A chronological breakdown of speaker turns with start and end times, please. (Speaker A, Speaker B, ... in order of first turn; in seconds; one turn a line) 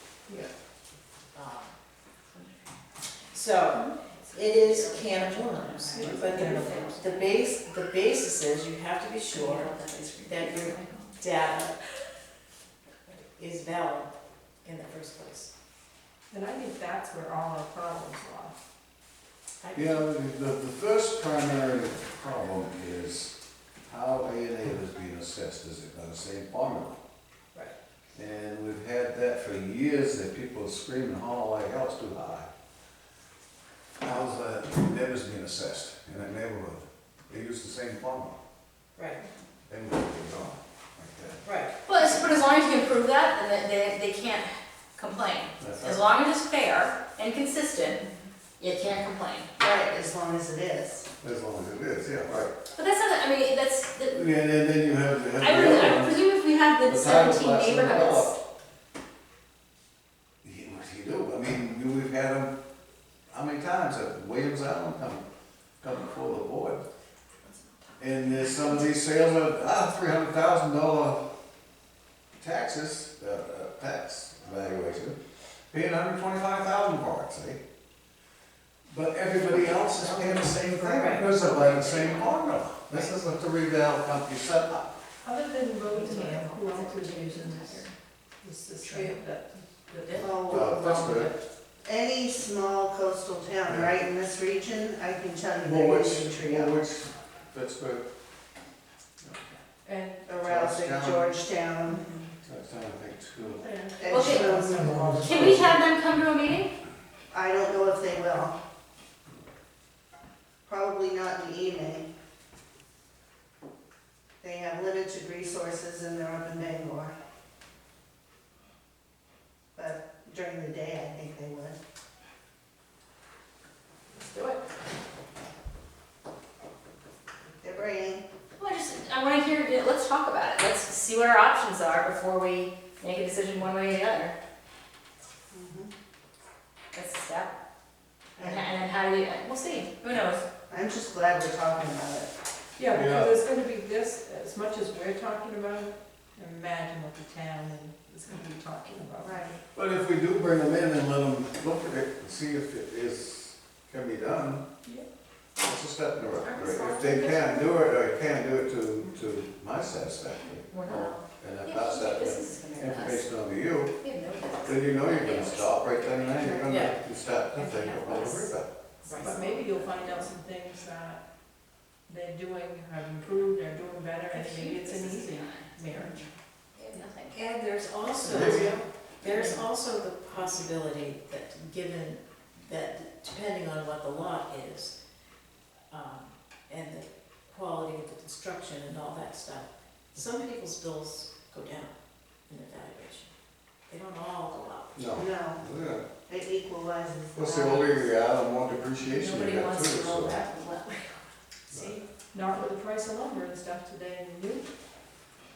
Speaker A: 1.3-1.8
Speaker A: 2.3-7.3
Speaker B: 3.3-9.7
Speaker C: 5.6-7.0
Speaker A: 9.3-11.2
Speaker B: 10.2-11.8
Speaker B: 13.1-14.1
Speaker B: 14.6-15.5
Speaker C: 16.3-18.6
Speaker B: 19.6-20.1
Speaker D: 19.8-23.3
Speaker D: 23.9-27.0
Speaker D: 28.1-32.5
Speaker D: 34.0-38.4
Speaker B: 39.0-39.2
Speaker D: 39.7-41.4
Speaker B: 41.4-41.8
Speaker A: 41.9-48.0
Speaker D: 45.6-46.0
Speaker A: 48.6-49.5
Speaker E: 49.6-51.1
Speaker D: 51.2-52.5
Speaker A: 52.7-54.2
Speaker D: 54.1-56.2
Speaker A: 55.4-58.4
Speaker D: 56.8-58.3
Speaker D: 60.4-62.5
Speaker D: 63.3-65.2
Speaker D: 65.8-66.8
Speaker A: 67.4-68.8
Speaker D: 68.0-71.2
Speaker D: 72.4-75.2
Speaker D: 75.7-77.6
Speaker D: 78.9-85.0
Speaker A: 80.0-80.4
Speaker B: 80.8-82.2
Speaker A: 81.4-82.2
Speaker C: 85.2-87.9
Speaker A: 85.8-87.9
Speaker C: 88.4-91.4
Speaker A: 88.8-89.2
Speaker E: 90.2-91.2
Speaker D: 90.5-91.3
Speaker E: 91.8-96.8
Speaker D: 93.7-94.0
Speaker D: 95.6-98.1
Speaker C: 99.8-100.3
Speaker E: 100.2-102.2
Speaker D: 100.4-101.3
Speaker D: 102.4-103.6
Speaker C: 103.4-105.7
Speaker E: 104.0-105.6
Speaker A: 104.1-104.5
Speaker A: 105.2-106.7
Speaker D: 105.4-105.7
Speaker E: 107.3-108.5
Speaker E: 110.7-112.1
Speaker E: 114.4-117.1
Speaker E: 119.8-121.8
Speaker A: 124.2-124.6
Speaker E: 127.6-128.2
Speaker A: 128.6-134.3
Speaker E: 135.5-135.9
Speaker A: 136.9-137.6
Speaker E: 138.4-138.7
Speaker A: 138.4-140.4
Speaker E: 140.7-142.3
Speaker C: 142.8-149.6
Speaker D: 142.9-143.4
Speaker E: 149.2-149.6
Speaker D: 149.7-154.7
Speaker D: 155.6-163.9
Speaker C: 156.4-157.7
Speaker A: 160.7-163.3
Speaker A: 164.0-166.7
Speaker D: 164.6-168.7
Speaker B: 166.7-166.9
Speaker C: 167.5-168.5
Speaker A: 169.0-170.2
Speaker B: 169.0-169.8
Speaker C: 169.2-171.2
Speaker C: 172.1-176.3
Speaker A: 174.3-175.8
Speaker A: 176.7-177.4
Speaker B: 177.3-184.9
Speaker A: 178.2-178.6
Speaker D: 178.2-178.8
Speaker C: 178.3-179.7
Speaker B: 185.9-191.9
Speaker B: 192.5-193.3
Speaker B: 193.9-195.0
Speaker D: 194.9-196.1
Speaker E: 195.2-195.6
Speaker E: 196.3-198.1
Speaker D: 197.3-200.4
Speaker A: 199.0-201.3
Speaker C: 201.7-204.7